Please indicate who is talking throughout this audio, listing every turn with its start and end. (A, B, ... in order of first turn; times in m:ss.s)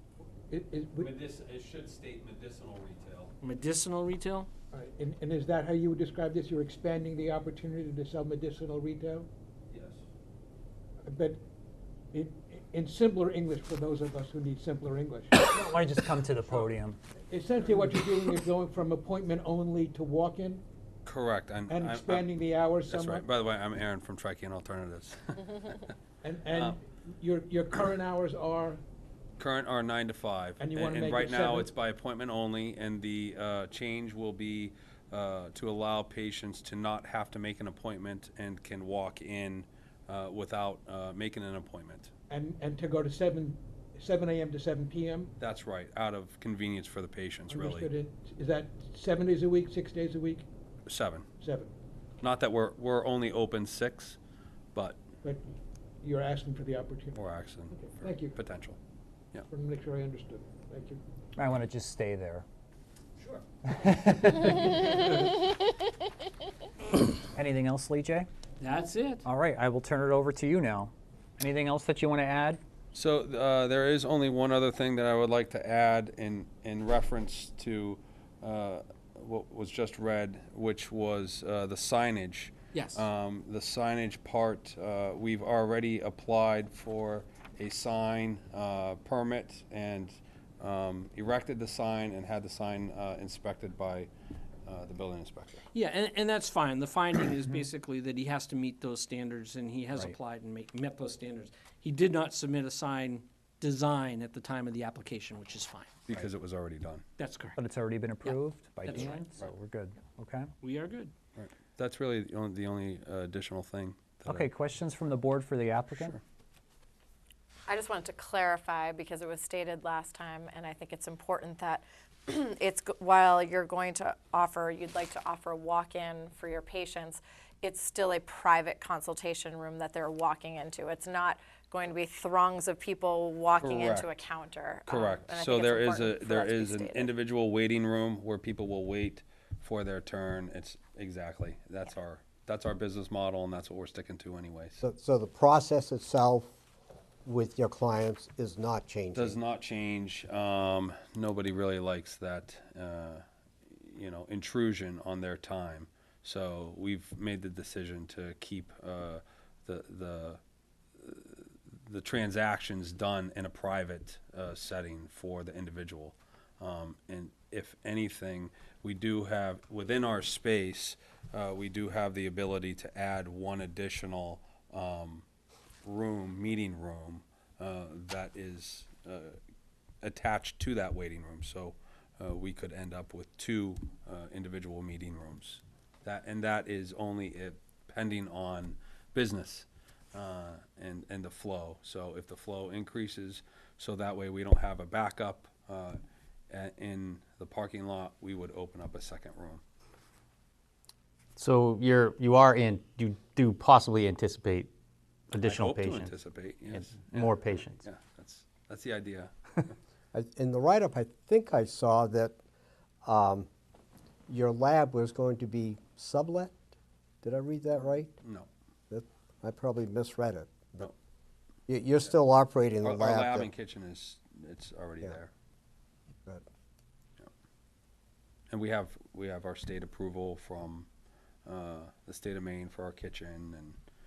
0:00.5-0:01.1 A
0:01.0-0:03.3 B
0:03.4-0:04.5 C
0:04.7-0:09.3 A
0:09.7-0:10.0 B
0:11.0-0:11.4 A
0:12.1-0:15.4 A
0:15.4-0:17.0 D
0:17.3-0:20.6 A
0:21.0-0:25.9 B
0:21.7-0:23.2 A
0:26.2-0:28.8 A
0:26.5-0:26.8 B
0:29.4-0:42.1 B
0:30.6-0:31.7 A
0:42.3-0:45.3 A
0:45.4-0:47.9 B
0:47.5-0:50.5 A
0:50.9-0:51.3 B
0:51.4-0:51.7 A
0:52.2-0:54.2 B
0:54.7-0:55.0 B
0:55.2-0:57.2 A
0:57.1-0:58.8 B
0:57.7-0:58.4 A
0:59.5-1:01.0 A
1:01.4-1:02.4 D
1:03.7-1:05.2 D
1:07.3-1:08.3 D
1:08.6-1:09.2 C
1:09.2-1:12.6 D
1:12.9-1:34.1 B
1:22.7-1:23.0 C
1:34.6-1:35.6 B
1:35.7-1:46.0 C
1:46.1-1:47.0 B
1:47.2-1:47.6 C
1:47.6-1:50.5 D
1:48.2-1:49.2 C
1:50.6-1:51.1 C
1:51.4-1:54.4 B
1:54.2-1:56.2 D
1:57.7-2:17.1 E
2:13.6-2:14.1 B
2:14.8-2:24.8 B
2:24.8-2:26.5 F
2:27.2-2:29.4 F
2:29.1-2:40.4 B
2:41.0-2:55.2 B
2:55.8-2:59.4 B
3:00.0-3:16.0 B
3:16.5-3:19.6 B
3:21.4-3:24.7 G
3:25.3-3:26.1 G
3:25.4-3:29.6 B
3:26.7-3:27.8 G
3:30.1-3:32.4 F
3:33.0-3:33.5 F
3:34.3-3:36.6 F
3:37.2-3:38.1 F
3:38.2-3:38.5 B
3:38.9-3:40.9 F
3:41.7-3:43.5 F
3:42.8-3:45.3 B
3:48.5-3:50.9 B
3:51.4-3:53.8 B